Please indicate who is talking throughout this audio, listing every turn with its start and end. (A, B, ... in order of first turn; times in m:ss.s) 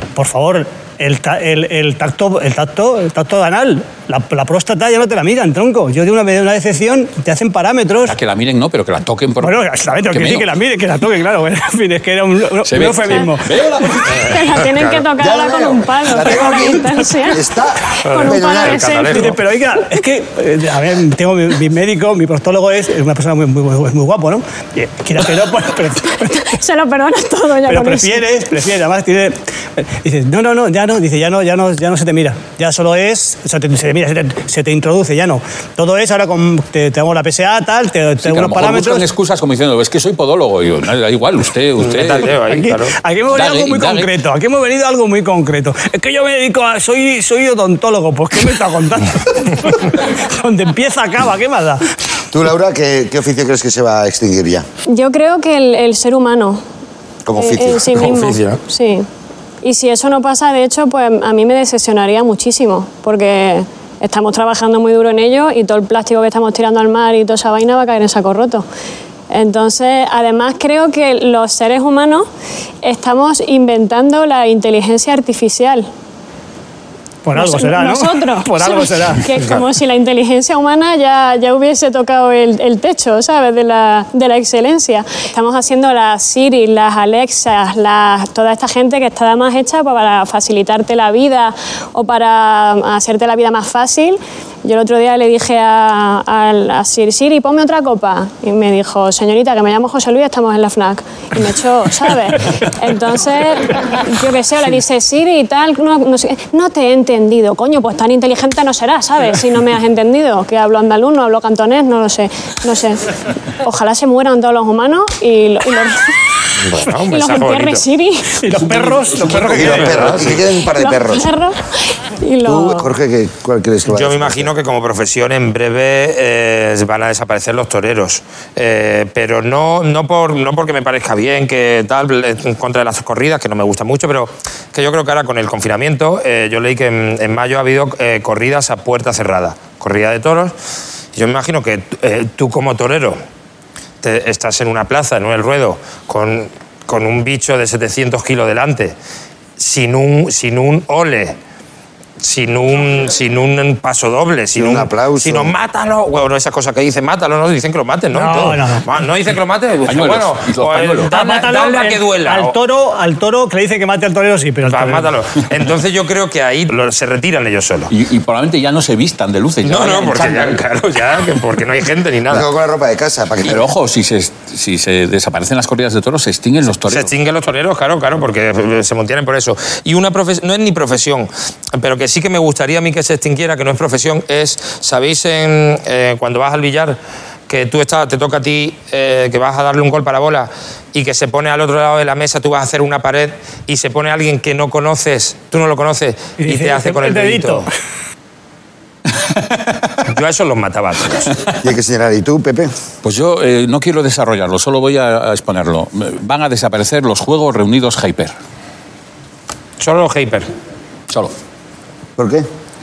0:00.2-0:08.1 A
0:08.0-0:10.5 B
0:09.4-0:13.6 A
0:12.6-0:14.4 B
0:14.2-0:17.4 C
0:14.3-0:15.0 D
0:15.2-0:19.1 E
0:18.1-0:19.4 D
0:18.1-0:19.3 C
0:19.1-0:26.5 A
0:26.3-0:28.2 C
0:27.7-0:39.1 A
0:38.2-0:42.4 B
0:41.8-0:42.9 D
0:42.4-0:51.9 A
0:43.3-0:44.1 B
0:52.3-0:54.6 E
0:54.9-0:56.6 C
0:57.2-0:58.1 E
0:57.4-0:59.1 C
0:58.0-0:58.6 D
0:59.6-1:08.6 C
1:09.3-1:12.2 C
1:12.8-1:15.9 C
1:17.2-1:19.2 A
1:17.4-1:53.0 C
1:53.6-1:56.2 C
1:56.6-1:57.8 D
1:57.1-1:58.4 C
1:58.4-2:00.2 A
1:59.1-2:01.3 E
1:59.5-2:00.4 D
2:00.6-2:02.9 C
2:02.4-2:04.5 E
2:03.9-2:20.6 D
2:21.1-2:23.2 D
2:24.0-2:28.9 D
2:29.6-2:31.4 D
2:32.2-2:42.6 D
2:34.6-2:35.5 E
2:38.1-2:38.9 A
2:39.9-2:41.1 B
2:41.1-2:45.2 A
2:44.6-2:47.9 D
2:47.9-2:50.6 B
2:49.6-2:52.5 D
2:52.3-2:53.7 E
2:53.4-2:57.1 B
2:56.9-3:07.0 D
3:07.5-3:17.7 D
3:16.4-3:17.7 A
3:20.1-3:21.3 D
3:21.6-3:22.7 E
3:23.0-3:28.3 B
3:29.8-3:30.5 D
3:32.2-3:32.5 E